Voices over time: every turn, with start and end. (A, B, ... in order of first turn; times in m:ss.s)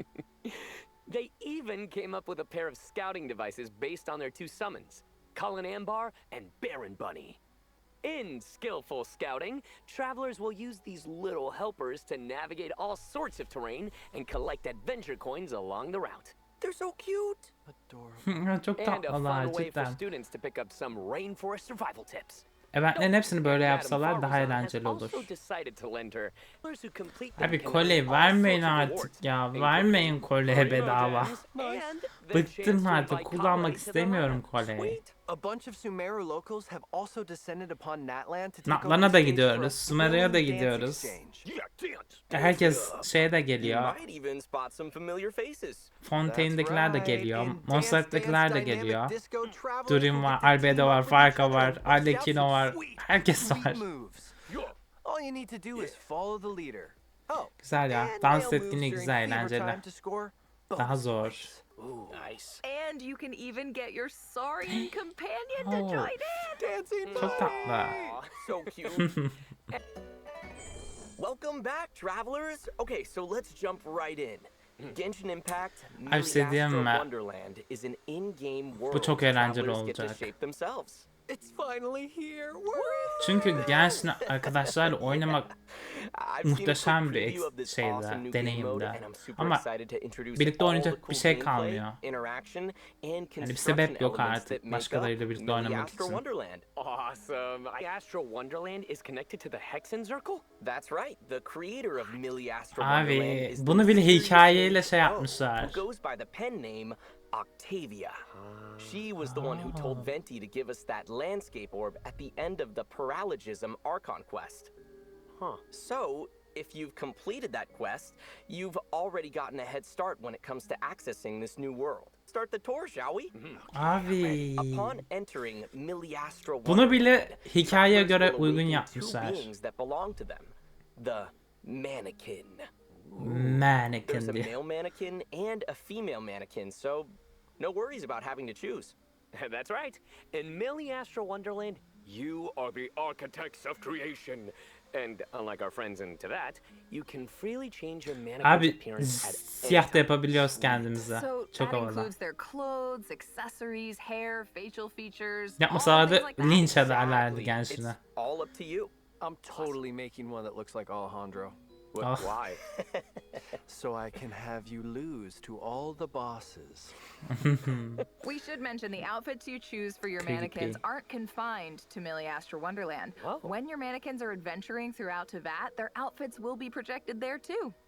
0:00.4-0:07.4 A
0:08.0-0:16.4 A
0:16.6-0:17.5 B
0:17.7-0:18.3 C
0:18.2-0:20.0 D
0:18.8-0:35.0 A
0:22.7-0:25.3 D
0:27.4-0:31.4 D
0:27.7-0:29.1 B
0:31.5-0:31.9 C
0:32.3-0:35.0 D
0:35.2-0:41.5 C
0:38.6-0:41.2 D
0:41.4-0:42.3 A
0:42.3-0:44.0 D
0:42.3-0:45.9 B
0:46.0-0:49.2 D
0:46.2-0:54.4 C
0:49.9-0:53.8 D
0:54.5-0:54.8 A
0:55.0-1:02.4 C
0:57.6-0:59.8 D
1:00.8-1:01.5 D
1:02.1-1:02.6 A
1:02.6-1:06.7 E
1:05.6-1:06.2 D
1:06.6-1:08.2 C
1:07.0-1:08.9 A
1:07.2-1:08.0 D
1:08.3-1:09.1 B
1:09.0-1:09.4 D
1:11.2-1:21.1 B
1:16.1-1:17.1 D
1:18.9-1:20.3 D
1:21.3-1:24.0 C
1:22.7-1:36.7 B
1:23.2-1:25.5 D
1:26.4-1:29.6 D
1:30.4-1:32.0 D
1:33.4-1:36.2 D
1:36.8-1:40.4 A
1:40.6-1:48.2 B
1:42.8-1:45.8 D
1:48.3-1:49.0 A
1:48.8-1:54.7 B
1:49.2-1:50.1 D
1:55.4-1:55.6 A
1:55.7-2:03.3 B
2:03.3-2:03.6 A
2:03.7-2:05.0 D
2:03.9-2:12.7 B
2:06.6-2:09.5 D
2:13.2-2:14.5 D
2:14.1-2:19.0 B
2:19.3-2:30.9 A
2:28.4-2:32.1 D
2:31.0-2:36.8 E
2:35.6-2:38.0 D
2:36.4-2:38.9 B
2:39.2-2:41.6 C
2:41.9-2:42.6 A
2:42.0-2:42.4 D
2:42.6-2:43.4 B
2:43.7-2:46.9 C
2:47.3-2:48.0 D
2:48.2-2:57.8 E
2:50.2-2:50.8 D
2:53.2-2:53.5 A